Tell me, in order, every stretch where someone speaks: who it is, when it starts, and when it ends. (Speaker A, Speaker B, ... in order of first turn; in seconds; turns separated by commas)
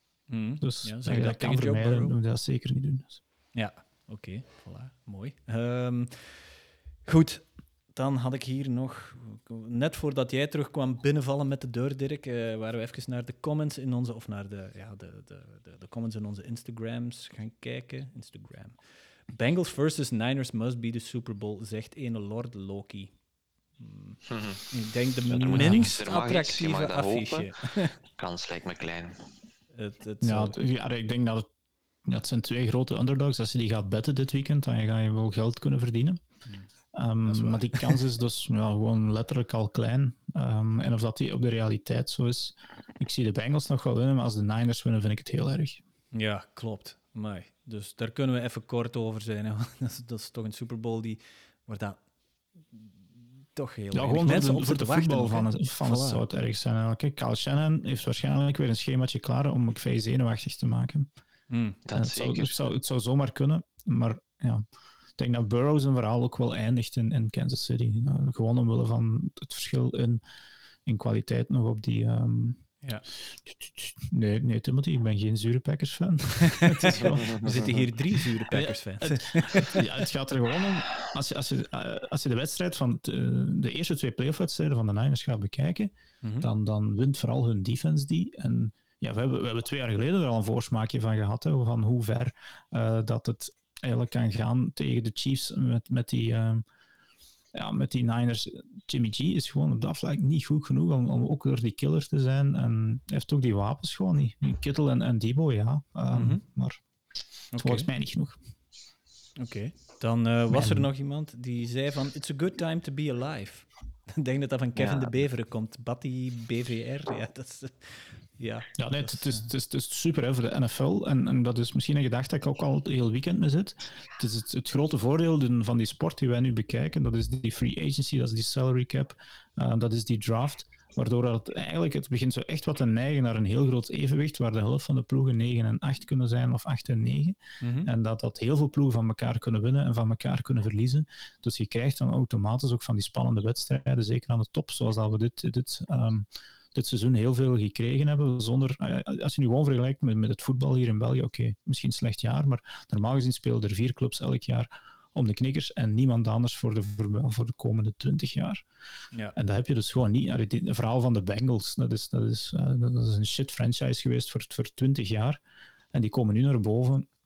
Speaker A: 0.3-2.1, Speaker B: 0.6-3.2, Speaker A: 3.5-6.5, Speaker A: 7.0-18.8, Speaker A: 19.3-23.1, Speaker A: 23.8-24.2, Speaker C: 24.3-24.7, Speaker A: 24.7-27.9, Speaker C: 25.3-29.2, Speaker B: 25.5-25.9, Speaker A: 29.7-30.6, Speaker B: 30.2-31.5, Speaker B: 32.0-36.2, Speaker B: 36.9-45.8, Speaker A: 37.2-38.0, Speaker A: 46.1-52.0, Speaker A: 52.7-56.2, Speaker B: 53.9-61.1, Speaker A: 61.5-61.8, Speaker C: 61.9-62.7, Speaker B: 61.9-64.6, Speaker B: 65.2-70.2, Speaker B: 70.8-72.7, Speaker B: 73.4-77.7, Speaker A: 76.4-79.8, Speaker C: 76.9-77.8, Speaker B: 78.5-96.6, Speaker A: 86.2-86.5, Speaker B: 97.5-106.8, Speaker A: 106.1-106.4, Speaker A: 107.5-107.9, Speaker B: 107.6-108.4, Speaker A: 109.4-119.5, Speaker B: 110.5-110.9, Speaker C: 114.8-115.1, Speaker B: 118.8-158.6, Speaker A: 137.6-137.9, Speaker B: 159.3-165.4, Speaker B: 165.9-167.1